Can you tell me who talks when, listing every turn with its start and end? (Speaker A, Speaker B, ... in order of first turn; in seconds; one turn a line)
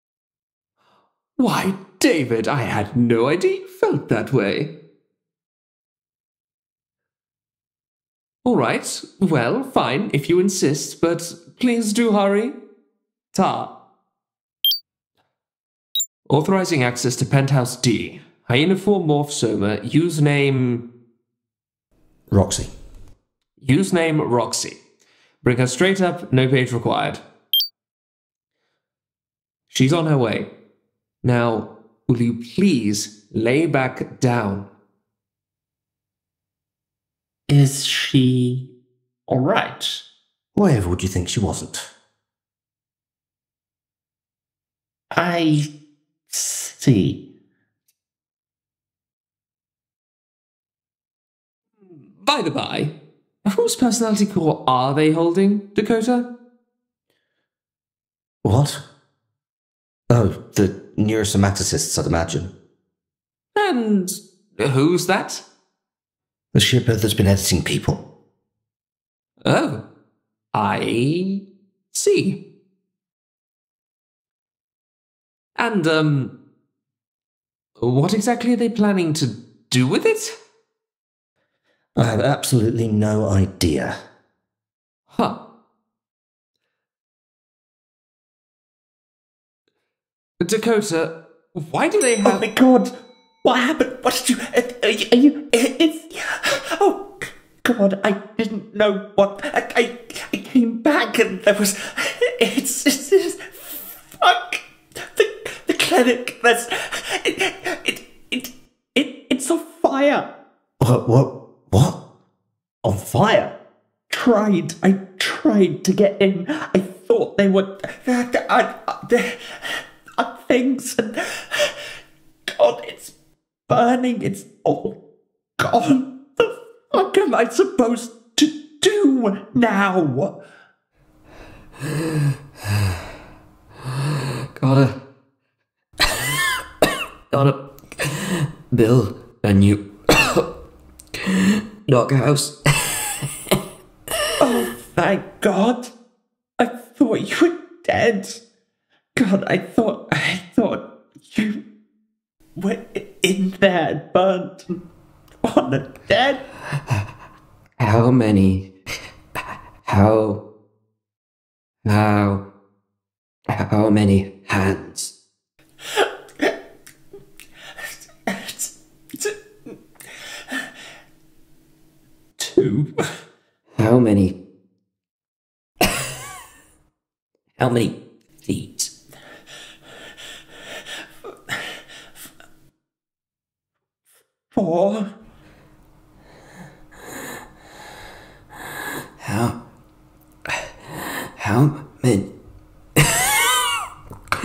Speaker A: 1.4-4.7
Speaker A: 8.4-12.6
Speaker A: 13.3-13.7
Speaker A: 16.3-20.9
Speaker B: 22.3-22.7
Speaker A: 23.6-24.8
Speaker A: 25.4-27.2
Speaker A: 29.7-30.5
Speaker A: 31.2-34.7
Speaker C: 37.5-38.7
Speaker C: 39.3-40.0
Speaker B: 40.5-41.9
Speaker C: 45.1-45.7
Speaker C: 46.3-47.2
Speaker A: 52.1-56.3
Speaker B: 58.4-58.8
Speaker B: 60.1-62.5
Speaker A: 63.5-65.4
Speaker B: 66.5-68.0
Speaker A: 69.4-69.8
Speaker A: 70.5-72.4
Speaker A: 75.5-76.3
Speaker A: 77.8-80.4
Speaker B: 82.0-84.0
Speaker A: 85.1-85.4
Speaker A: 90.4-92.5
Speaker C: 92.2-92.9
Speaker C: 93.4-110.3
Speaker B: 110.8-112.0
Speaker C: 112.8-113.5
Speaker C: 114.1-121.8
Speaker C: 122.5-123.1
Speaker C: 123.7-125.0
Speaker C: 125.6-130.4
Speaker D: 134.6-135.0
Speaker D: 137.3-140.5
Speaker D: 141.3-142.6
Speaker C: 144.4-145.9
Speaker D: 144.4-144.7
Speaker C: 146.6-148.4
Speaker C: 149.1-151.6
Speaker C: 152.6-154.8
Speaker C: 155.4-156.4
Speaker D: 157.8-158.7
Speaker D: 159.8-160.4
Speaker D: 161.8-162.4
Speaker D: 163.5-165.1
Speaker C: 168.2-169.4
Speaker C: 172.4-172.9
Speaker D: 173.8-174.3
Speaker D: 177.6-178.9
Speaker C: 184.5-185.1
Speaker D: 189.2-189.6
Speaker D: 191.4-192.3